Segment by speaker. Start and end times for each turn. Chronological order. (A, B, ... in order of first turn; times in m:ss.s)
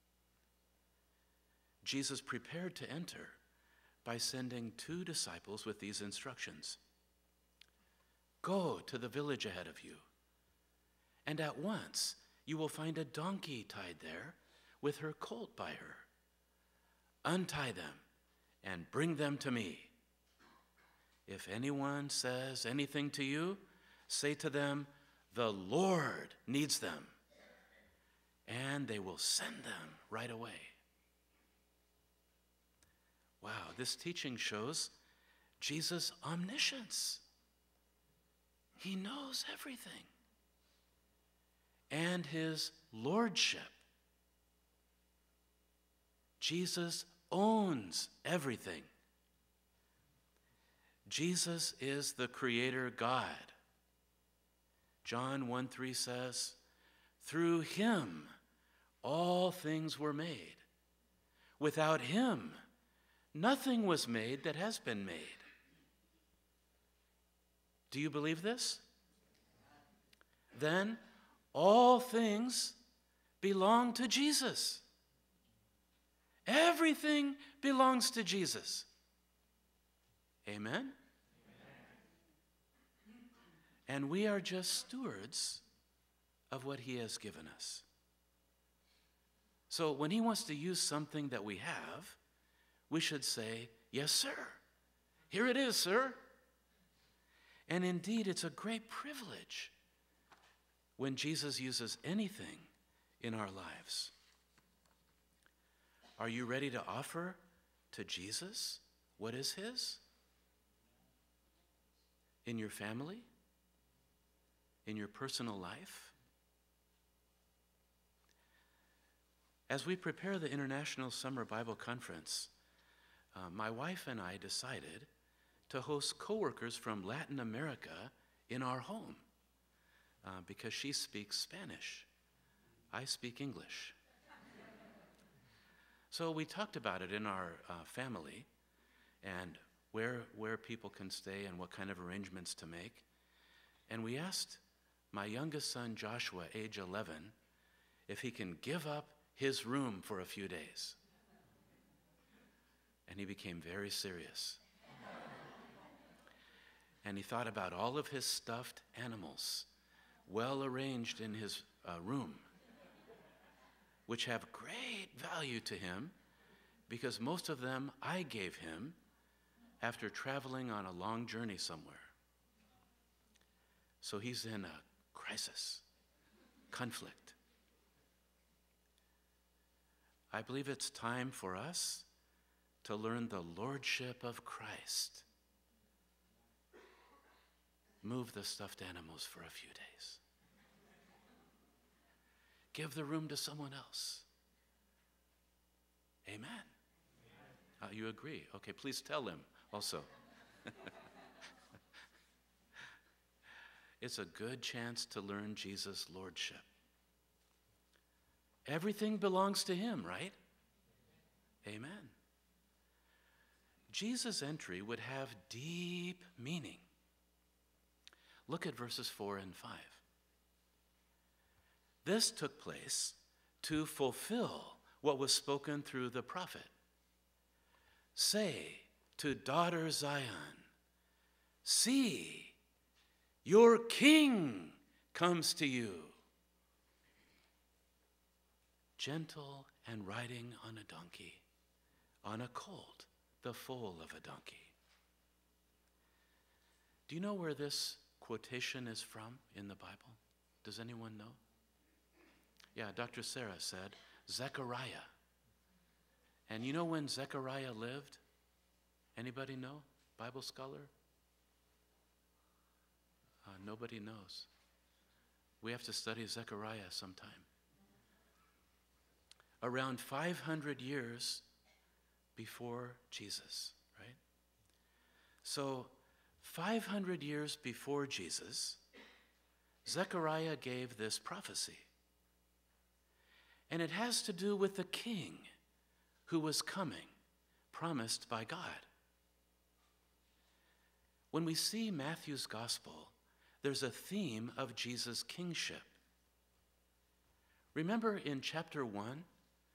0:01.8-0:03.4 A
0:04.0-0:06.8 A
0:08.4-0:10.0 A
0:11.2-0:16.1 A
0:17.2-0:18.0 A
0:18.6-0:19.9 A
0:21.3-0:27.2 A
0:28.4-0:30.8 A
0:33.4-0:34.9 A
0:35.6-0:37.2 A
0:38.8-0:40.1 A
0:41.9-0:43.8 A
0:46.4-0:48.9 A
0:51.1-0:53.6 A
0:55.0-0:56.6 A
0:57.2-0:58.3 A
0:59.0-1:00.6 A
1:01.6-1:02.6 A
1:03.3-1:05.4 A
1:07.9-1:08.8 A
1:10.5-1:11.0 A
1:11.5-1:12.8 A
1:13.4-1:14.8 A
1:16.4-1:18.9 A
1:20.4-1:21.0 A
1:23.9-1:25.6 A
1:26.5-1:27.8 A
1:29.7-1:32.2 A
1:32.9-1:34.6 A
1:35.3-1:36.2 A
1:37.7-1:39.7 A
1:41.0-1:44.1 A
1:46.2-1:50.0 A
1:52.4-1:53.3 A
1:54.8-1:56.1 A
1:59.7-2:02.5 A
2:03.3-2:05.1 A
2:05.7-2:09.2 A
2:10.2-2:12.1 A
2:12.9-2:14.0 A
2:16.1-2:18.5 A
2:19.2-2:23.0 A
2:23.9-2:27.3 A
2:28.1-2:31.0 A
2:33.0-2:34.6 A
2:37.0-2:39.7 A
2:40.2-2:42.5 A
2:44.1-2:46.1 A
2:46.9-2:49.0 A
2:49.8-2:52.1 A
2:54.0-2:55.8 A
2:56.7-2:57.4 A
3:00.3-3:02.0 A
3:02.8-3:05.2 A
3:08.0-3:10.2 A
3:12.7-3:14.2 A
3:16.2-3:16.7 A
3:17.8-3:20.1 A
3:20.6-3:20.9 A
3:24.0-3:26.7 A
3:28.6-3:30.4 A
3:31.6-3:32.1 A
3:33.9-3:36.9 A
3:38.5-3:40.0 A
3:42.0-3:46.7 A
3:48.1-3:50.7 A
3:51.6-3:52.6 A
3:53.4-3:56.2 A
3:59.0-4:01.4 A
4:02.2-4:04.7 A
4:07.1-4:11.4 A
4:12.7-4:15.1 A
4:16.5-4:18.2 A
4:19.2-4:20.9 A
4:23.4-4:24.5 A
4:25.6-4:27.5 A
4:29.6-4:31.4 A
4:32.4-4:34.2 A
4:35.4-4:38.8 A
4:39.8-4:41.9 A
4:43.7-4:45.5 A
4:46.3-4:47.1 A
4:47.7-4:48.8 A
4:51.3-4:55.9 A
4:57.7-4:59.3 A